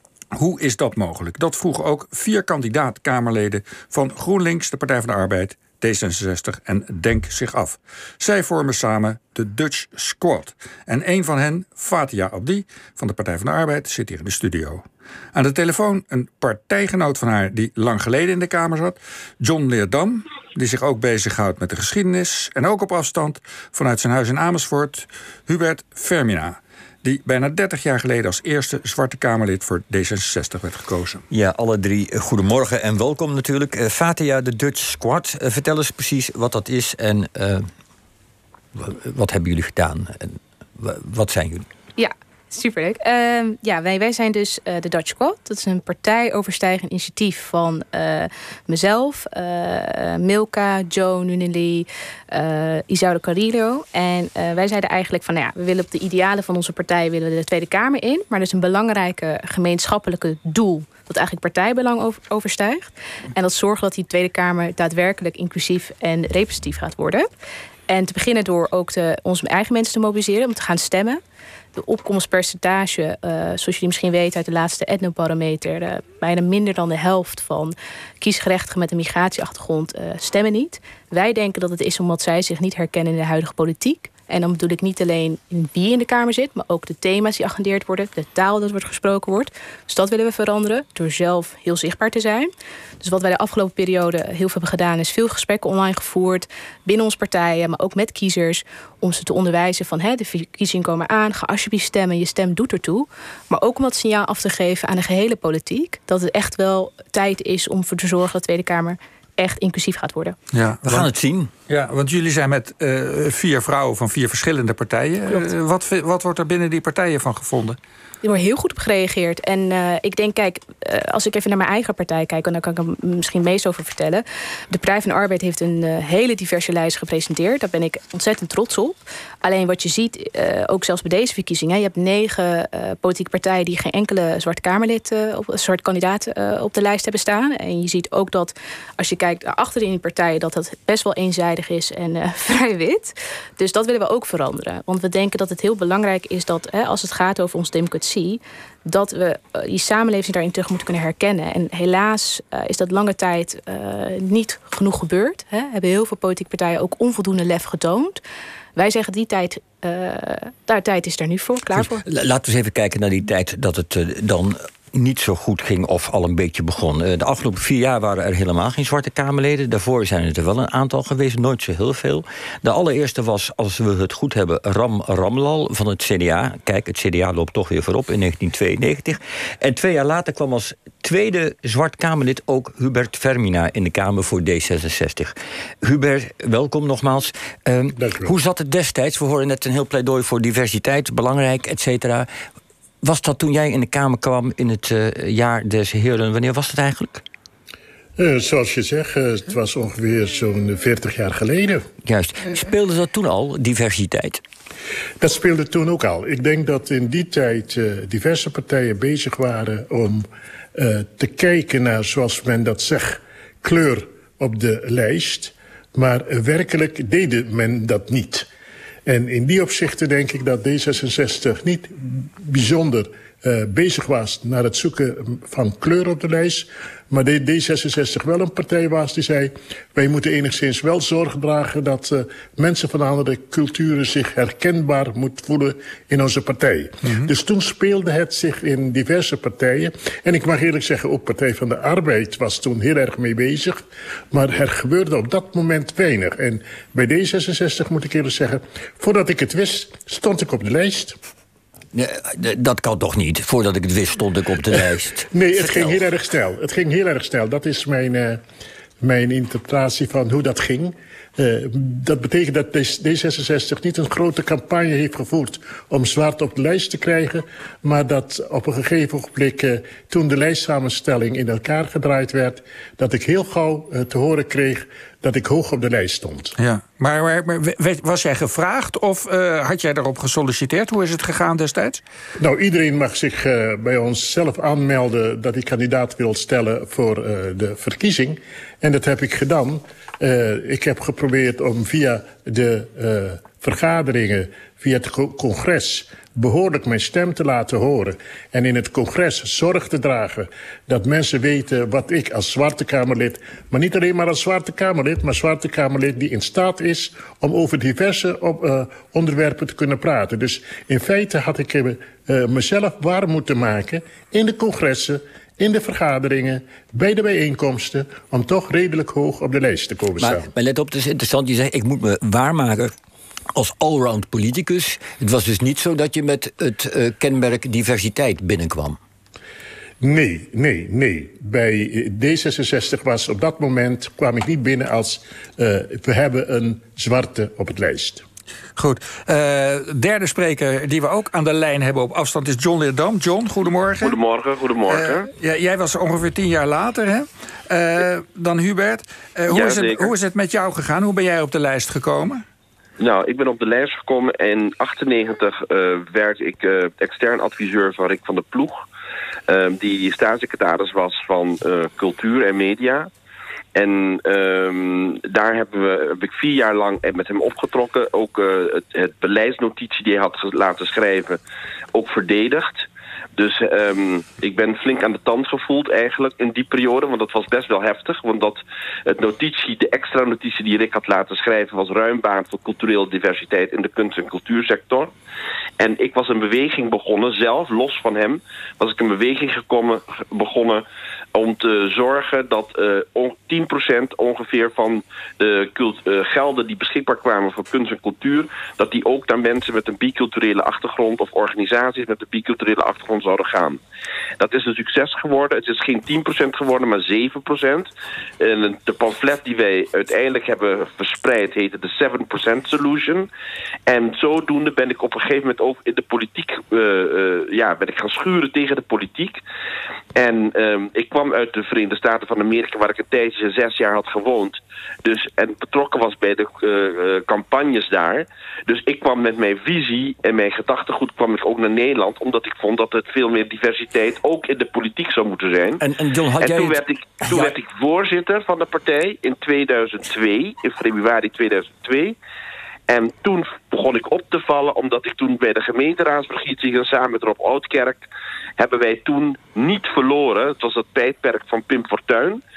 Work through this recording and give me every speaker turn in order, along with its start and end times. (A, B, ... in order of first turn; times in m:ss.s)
0:00.3-0:31.2 A
0:31.3-0:37.7 B
0:38.8-0:41.7 B
0:42.0-1:07.3 C
1:07.9-1:11.2 C
1:11.8-1:50.4 C
1:50.5-1:51.1 A
1:50.8-1:51.5 B
1:51.7-1:57.8 A
1:58.2-2:38.2 C
2:38.8-2:42.0 C
2:41.8-3:12.3 B
3:08.0-3:08.3 D
3:13.0-3:17.2 B
3:18.2-3:21.9 D
3:22.1-3:24.4 B
3:25.2-3:38.5 D
3:39.1-4:03.8 D
4:04.3-4:11.2 D
4:11.9-4:16.0 B
4:15.3-4:18.4 D
4:19.0-4:36.6 D
4:36.6-4:42.0 A
4:42.4-5:20.5 D
5:20.2-5:22.9 B
5:23.5-5:29.0 B
5:30.0-5:38.2 D
5:38.8-5:44.2 A
5:44.0-5:45.3 E
5:44.9-5:52.4 A
5:49.5-5:50.1 E
5:53.0-5:58.8 E
5:59.5-6:03.1 E
6:03.8-6:11.4 E
6:11.9-6:25.1 E
6:25.8-6:30.8 E
6:31.4-6:43.8 E
6:44.4-6:47.9 E
6:48.4-6:53.3 E
6:53.9-6:59.4 E
7:00.2-7:15.8 E
7:15.8-7:17.5 B
7:16.4-7:22.2 E
7:22.9-7:28.0 E
7:28.6-7:32.4 E